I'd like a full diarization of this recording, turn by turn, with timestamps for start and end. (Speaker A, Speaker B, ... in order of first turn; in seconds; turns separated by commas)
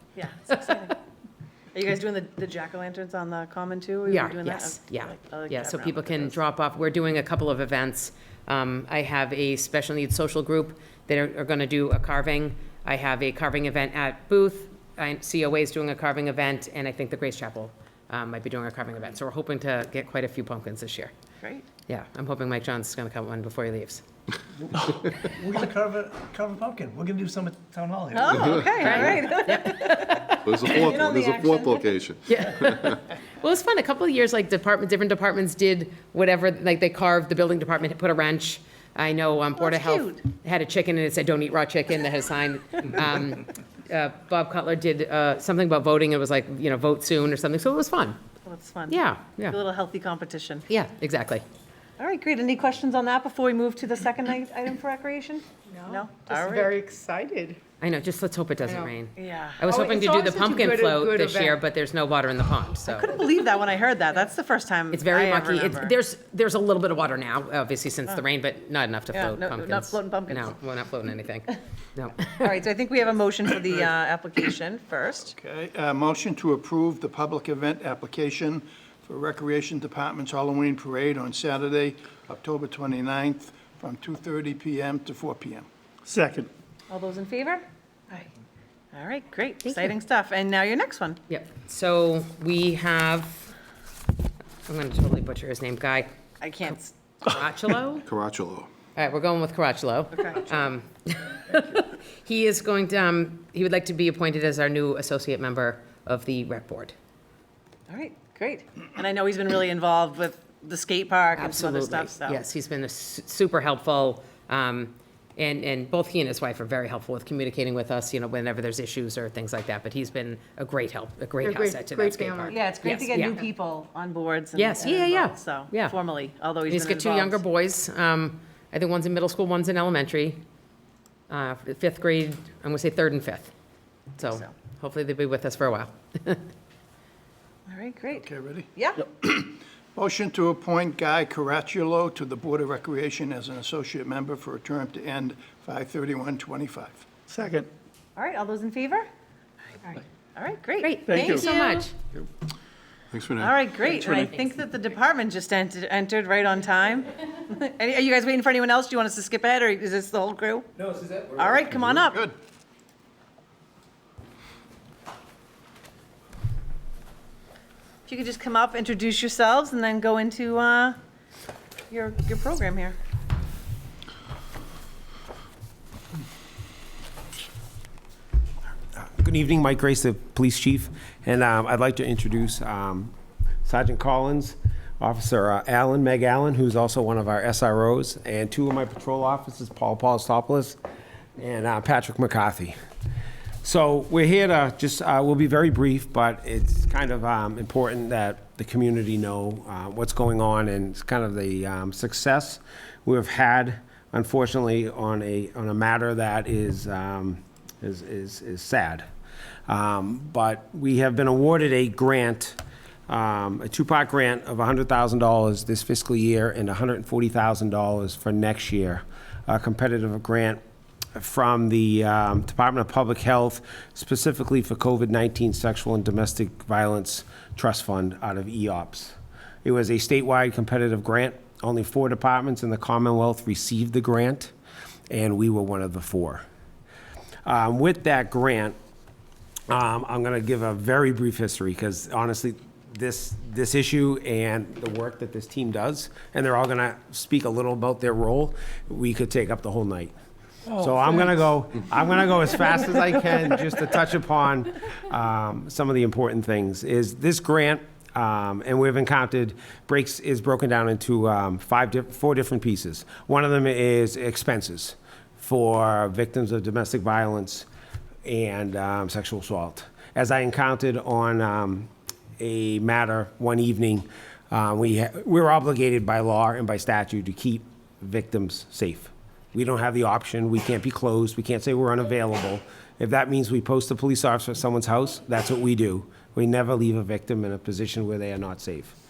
Speaker A: 0.2-1.0, Speaker A: 1.7-6.4, Speaker B: 4.1-21.1, Speaker B: 21.9-24.0, Speaker C: 24.8-28.8, Speaker A: 28.1-32.0, Speaker B: 28.7-30.4, Speaker D: 30.3-33.0, Speaker B: 32.3-48.2, Speaker A: 39.6-40.2, Speaker A: 48.5-50.7, Speaker B: 48.9-49.6, Speaker B: 50.7-51.4, Speaker A: 52.0-56.8, Speaker E: 55.7-57.6, Speaker B: 57.8-63.1, Speaker A: 59.2-59.8, Speaker E: 59.7-61.6, Speaker A: 62.9-65.9, Speaker B: 64.9-72.5, Speaker A: 69.1-70.5, Speaker A: 72.4-75.3, Speaker F: 75.2-85.7, Speaker C: 86.1-86.5, Speaker A: 86.9-88.3, Speaker A: 88.9-91.2, Speaker B: 91.3-93.5, Speaker B: 94.7-96.1, Speaker A: 96.4-96.9, Speaker B: 97.2-98.1, Speaker D: 98.0-98.7, Speaker B: 99.0-106.9, Speaker A: 100.1-100.4, Speaker A: 107.9-112.4, Speaker B: 111.3-123.4, Speaker E: 121.4-122.5, Speaker A: 122.5-127.4, Speaker B: 124.5-125.9, Speaker B: 126.7-130.4, Speaker B: 131.3-133.5, Speaker B: 134.2-136.4, Speaker A: 137.7-139.1, Speaker F: 138.1-147.1, Speaker C: 147.3-147.7, Speaker A: 148.2-149.1, Speaker A: 150.4-151.5, Speaker B: 150.8-151.9, Speaker D: 153.1-153.8, Speaker A: 153.4-162.2, Speaker C: 160.9-161.3, Speaker F: 162.1-162.3, Speaker A: 168.1-171.0, Speaker A: 171.9-173.0, Speaker G: 178.9-183.1, Speaker G: 183.7-190.8, Speaker G: 191.4-192.7, Speaker G: 193.6-209.1, Speaker G: 209.7-212.6, Speaker G: 213.1-220.6, Speaker G: 221.2-234.5, Speaker G: 235.1-236.4, Speaker G: 237.4-238.8, Speaker G: 239.7-250.1, Speaker G: 250.7-267.6, Speaker G: 268.2-288.9